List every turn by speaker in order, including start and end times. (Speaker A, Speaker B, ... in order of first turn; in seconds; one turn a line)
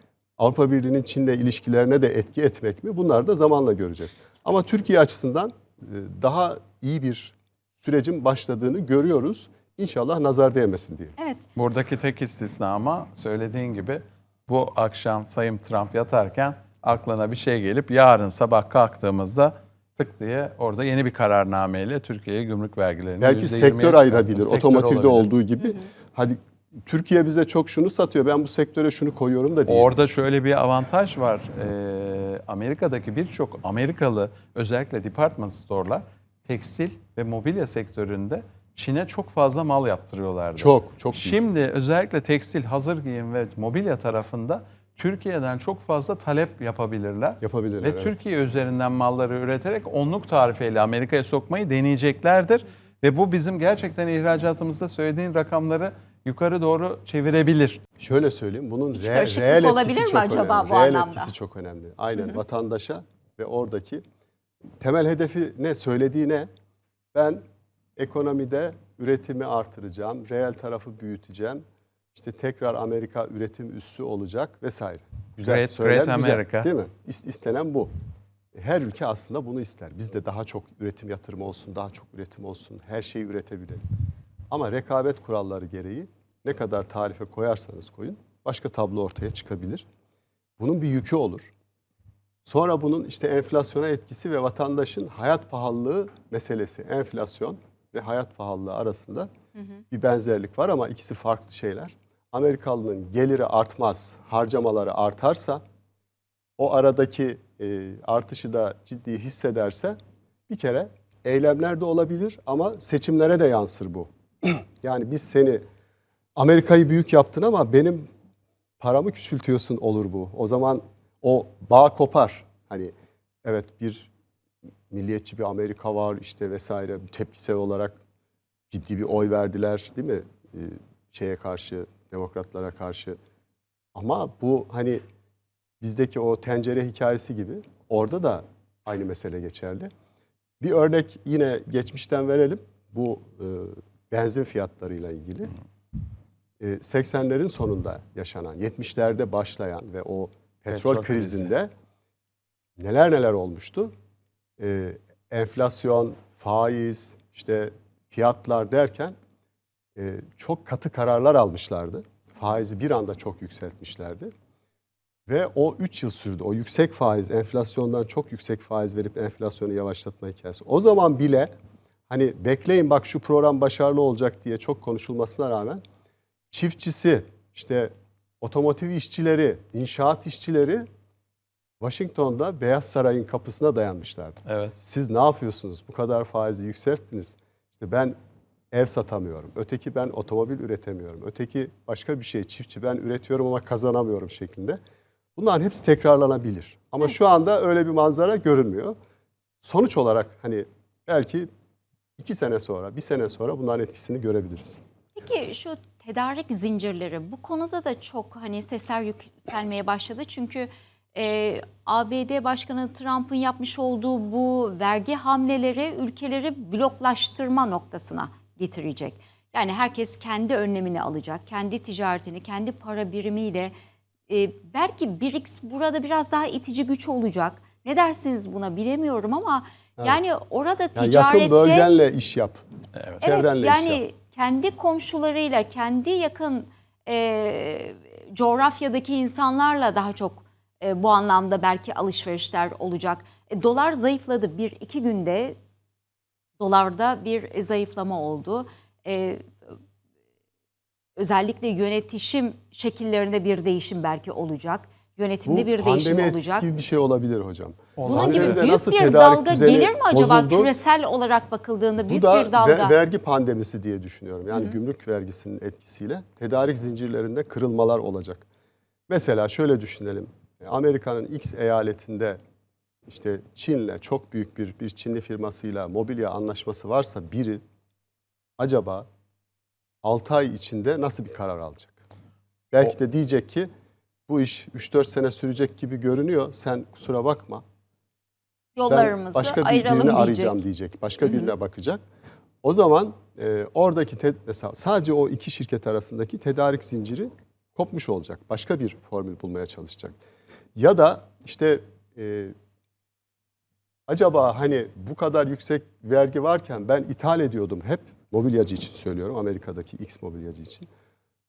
Speaker A: 0.4-11.1
Speaker B: 11.2-11.4
Speaker C: 11.6-25.3
Speaker A: 23.2-29.9
Speaker C: 29.7-57.8
Speaker A: 40.6-41.4
Speaker A: 47.4-48.1
Speaker A: 58.0-64.0
Speaker B: 58.9-61.3
Speaker A: 64.8-66.5
Speaker A: 67.1-67.4
Speaker A: 68.0-71.6
Speaker A: 72.1-77.9
Speaker C: 75.4-76.7
Speaker A: 78.5-83.8
Speaker A: 84.5-89.8
Speaker A: 90.6-91.5
Speaker A: 92.4-99.3
Speaker A: 99.9-105.6
Speaker A: 106.6-110.0
Speaker A: 110.5-115.6
Speaker A: 116.3-118.1
Speaker A: 118.8-122.9
Speaker A: 123.4-124.1
Speaker A: 124.9-128.0
Speaker A: 128.7-133.2
Speaker A: 133.9-135.0
Speaker A: 135.8-139.9
Speaker A: 140.6-145.5
Speaker A: 146.6-151.7
Speaker C: 150.7-151.5
Speaker A: 152.8-153.9
Speaker A: 154.6-159.1
Speaker A: 159.9-164.3
Speaker A: 165.3-171.5
Speaker A: 172.1-175.8
Speaker A: 176.5-180.9
Speaker A: 181.8-188.1
Speaker C: 184.5-184.8
Speaker A: 188.7-194.8
Speaker A: 195.3-198.9
Speaker A: 199.6-201.5
Speaker A: 202.2-204.8
Speaker B: 205.2-223.7
Speaker B: 224.3-231.9
Speaker A: 230.9-232.6
Speaker C: 232.9-233.2
Speaker A: 233.2-234.0
Speaker B: 233.2-245.6
Speaker B: 246.6-249.4
Speaker B: 251.2-256.7
Speaker A: 255.4-260.7
Speaker C: 258.0-258.6
Speaker B: 258.0-262.9
Speaker A: 262.0-268.4
Speaker A: 269.1-272.4
Speaker A: 273.1-277.6
Speaker A: 278.6-279.1
Speaker A: 280.0-282.0
Speaker A: 282.7-283.7
Speaker A: 284.3-287.6
Speaker B: 288.8-290.6
Speaker A: 288.9-292.0
Speaker A: 292.6-300.2
Speaker A: 300.7-302.5
Speaker A: 304.1-310.9